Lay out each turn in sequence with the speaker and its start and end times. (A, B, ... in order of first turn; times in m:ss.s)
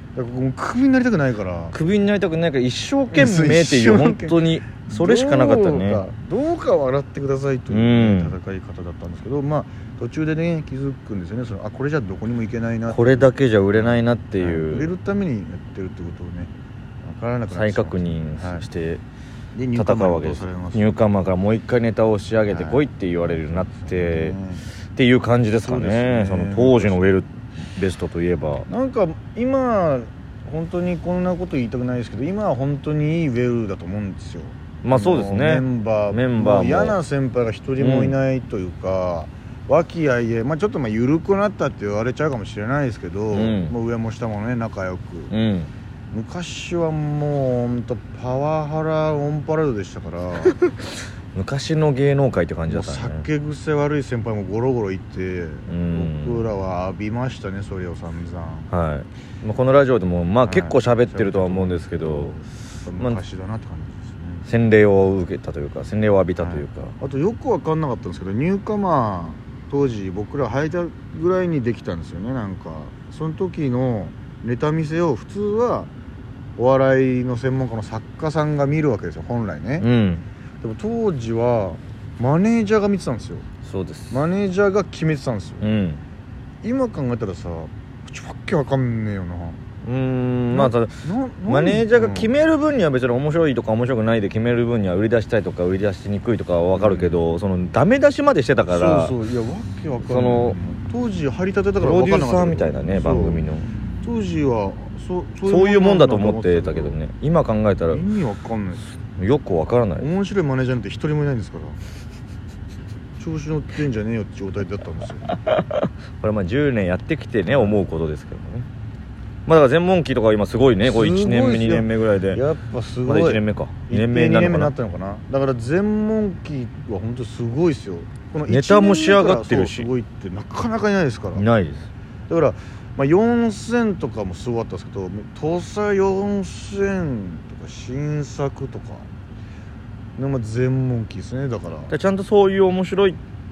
0:00.1-0:01.7 A
0:01.7-0:06.0 B
0:03.1-0:16.5 A
0:07.7-0:08.3 B
0:12.9-0:14.9 B
0:17.0-0:18.6 A
0:17.5-0:19.0 B
0:19.5-0:20.9 A
0:19.7-0:24.3 B
0:22.5-0:24.7 A
0:24.9-0:28.7 B
0:25.5-0:27.2 A
0:28.7-0:45.3 A
0:34.8-0:37.0 B
0:37.8-0:38.2 B
0:43.3-0:43.7 B
0:45.3-0:45.7 B
0:46.1-0:50.6 A
0:51.3-0:53.2 B
0:52.7-0:58.7 A
0:55.7-0:56.4 B
0:58.7-1:02.3 B
1:00.4-1:04.4 A
1:04.4-1:06.9 B
1:06.4-1:15.9 A
1:16.6-1:19.8 A
1:19.8-1:20.2 B
1:20.6-1:23.4 A
1:23.6-1:24.2 B
1:24.1-1:25.7 A
1:25.6-1:26.0 B
1:26.6-1:29.6 A
1:29.8-1:39.2 B
1:30.5-1:32.3 A
1:36.7-1:37.2 A
1:38.7-1:43.4 A
1:40.0-1:40.6 B
1:41.8-1:43.7 B
1:44.0-1:47.0 A
1:45.4-1:48.0 B
1:47.9-1:48.9 A
1:49.2-1:50.1 B
1:50.0-1:51.8 A
1:53.2-1:55.3 A
1:55.3-1:58.7 B
1:57.5-1:57.8 A
1:59.5-2:02.4 B
2:00.8-2:11.4 A
2:03.0-2:04.7 B
2:08.5-2:09.9 B
2:11.3-2:11.9 B
2:12.3-2:19.1 A
2:20.2-2:21.9 A
2:21.9-2:23.2 B